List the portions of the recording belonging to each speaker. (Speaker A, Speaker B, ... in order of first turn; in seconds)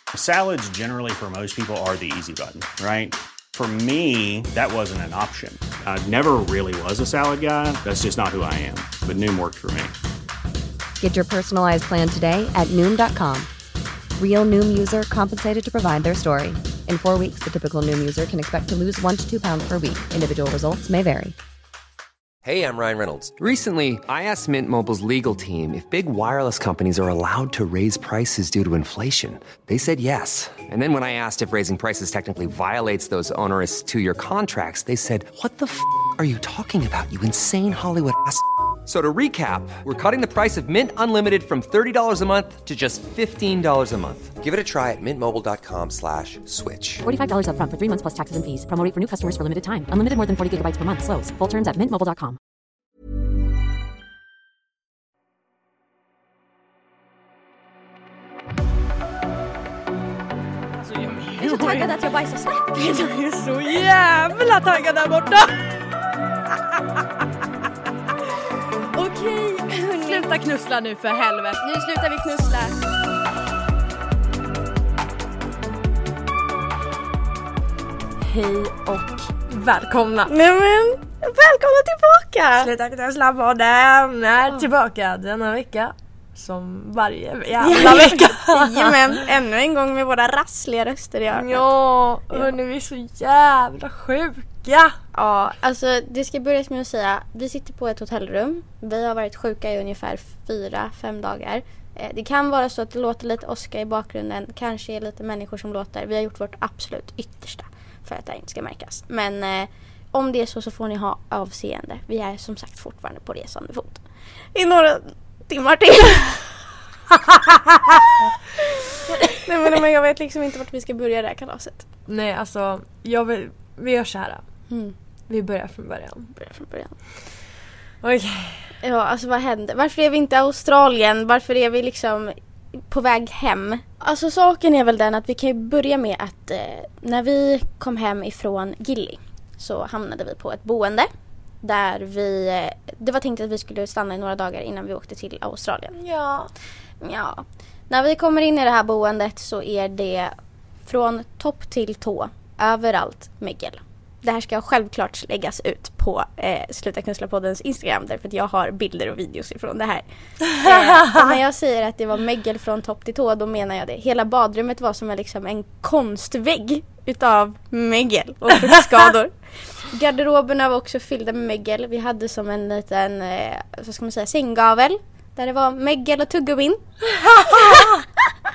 Speaker A: 0.1-9.9
Speaker B: 11.0-13.5, 14.2-21.4
Speaker C: 22.4-47.0
Speaker D: 47.0-52.4
Speaker E: 60.8-61.9, 63.0-65.8, 70.0-71.7, 78.2-80.3, 82.6-89.3, 91.3-94.9, 117.3-118.0, 122.1-124.4, 125.3-126.3, 128.0-128.6, 146.0-146.5, 160.5-161.4, 177.0-178.1
Speaker F: 61.4-63.3, 69.0-70.4, 71.6-72.8, 80.3-82.7, 87.6-91.7, 95.1-114.0, 114.5-116.5, 118.6-121.8, 126.3-127.0, 128.8-132.4, 132.9-141.1, 141.6-146.0, 147.0-150.3, 150.9-176.8, 177.5-177.9